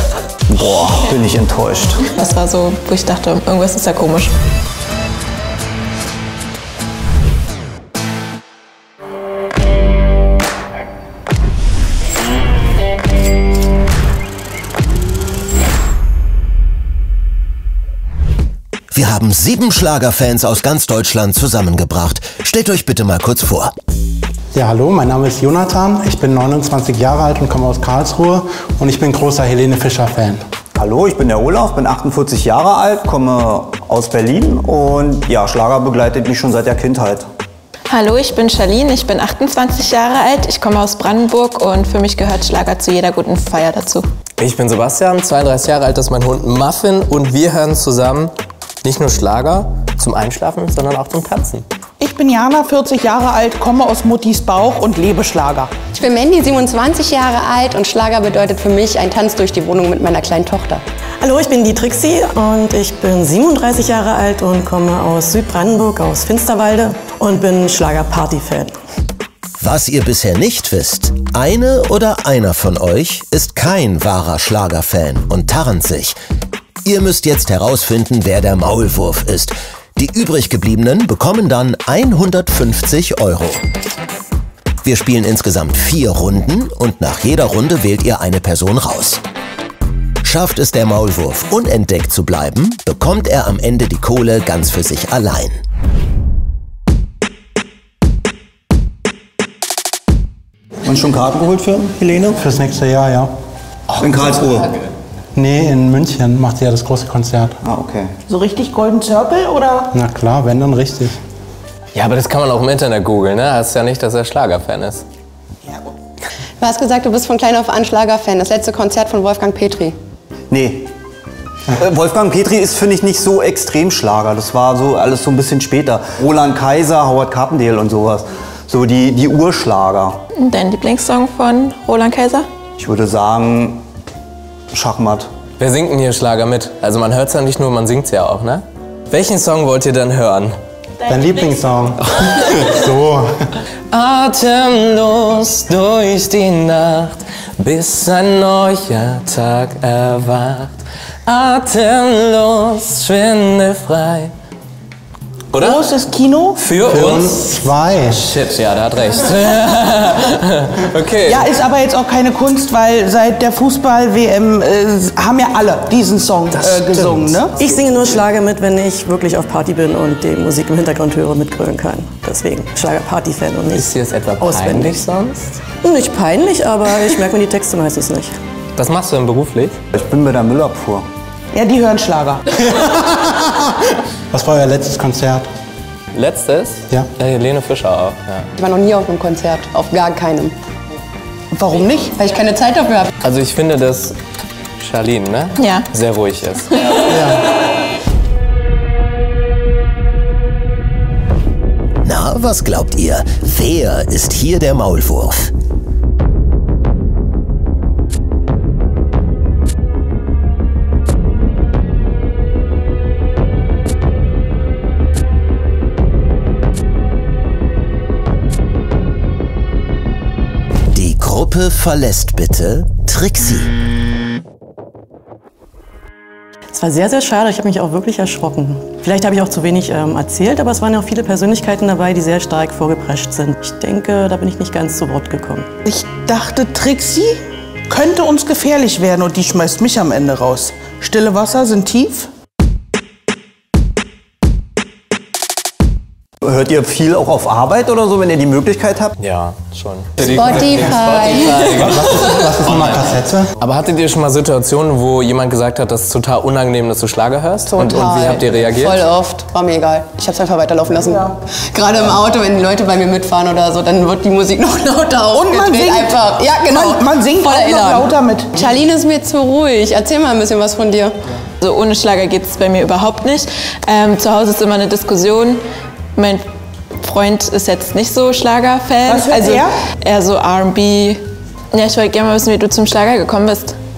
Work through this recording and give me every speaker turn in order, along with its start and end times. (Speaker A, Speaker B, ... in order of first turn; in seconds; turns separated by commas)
Speaker A: 0.5-2.0, Speaker B: 2.1-4.3, Speaker C: 18.9-23.7, Speaker D: 24.5-30.4, Speaker A: 30.8-37.3, Speaker B: 37.9-44.0, Speaker E: 44.4-48.3, Speaker E: 48.8-51.6, Speaker F: 52.0-55.7, Speaker G: 55.9-60.8, Speaker H: 61.2-68.7, Speaker C: 69.6-76.2, Speaker C: 76.8-83.6, Speaker C: 84.8-89.2, Speaker C: 90.2-95.5, Speaker A: 100.8-102.4, Speaker D: 102.4-103.3, Speaker A: 104.0-104.7, Speaker D: 105.3-107.6, Speaker A: 107.6-108.2, Speaker F: 108.3-109.9, Speaker D: 109.9-111.2, Speaker E: 111.9-115.0, Speaker G: 116.6-120.0, Speaker A: 120.5-120.9, Speaker A: 121.7-130.2, Speaker B: 130.4-132.5, Speaker A: 132.8-133.8, Speaker A: 134.7-135.3, Speaker E: 135.6-140.6, Speaker D: 141.1-143.3, Speaker E: 143.9-150.7, Speaker E: 151.2-154.3, Speaker E: 155.5-155.9, Speaker F: 155.6-156.6, Speaker E: 156.6-161.4, Speaker D: 156.9-158.2, Speaker F: 161.3-167.6, Speaker E: 166.9-167.2, Speaker H: 167.6-175.0, Speaker E: 173.7-175.6, Speaker H: 175.8-178.4, Speaker E: 178.8-179.8, Speaker A: 179.9-181.1, Speaker F: 181.5-182.4, Speaker D: 182.6-183.7, Speaker D: 184.3-185.4, Speaker E: 186.1-188.4, Speaker G: 188.6-190.5, Speaker F: 191.5-192.1, Speaker G: 192.1-193.1, Speaker E: 193.2-194.2, Speaker E: 194.8-196.7, Speaker B: 195.6-195.9, Speaker D: 197.1-197.5, Speaker C: 202.0-205.5, Speaker C: 220.9-223.7, Speaker H: 226.7-235.7, Speaker F: 235.8-237.4, Speaker F: 237.9-242.3, Speaker A: 246.4-249.1, Speaker E: 249.2-258.9, Speaker G: 250.2-251.8, Speaker D: 251.7-253.5, Speaker G: 257.6-271.1, Speaker F: 261.0-261.3, Speaker F: 265.3-268.7, Speaker B: 271.6-275.6, Speaker B: 276.1-276.4, Speaker B: 277.0-281.2, Speaker F: 279.0-279.7, Speaker B: 281.7-283.8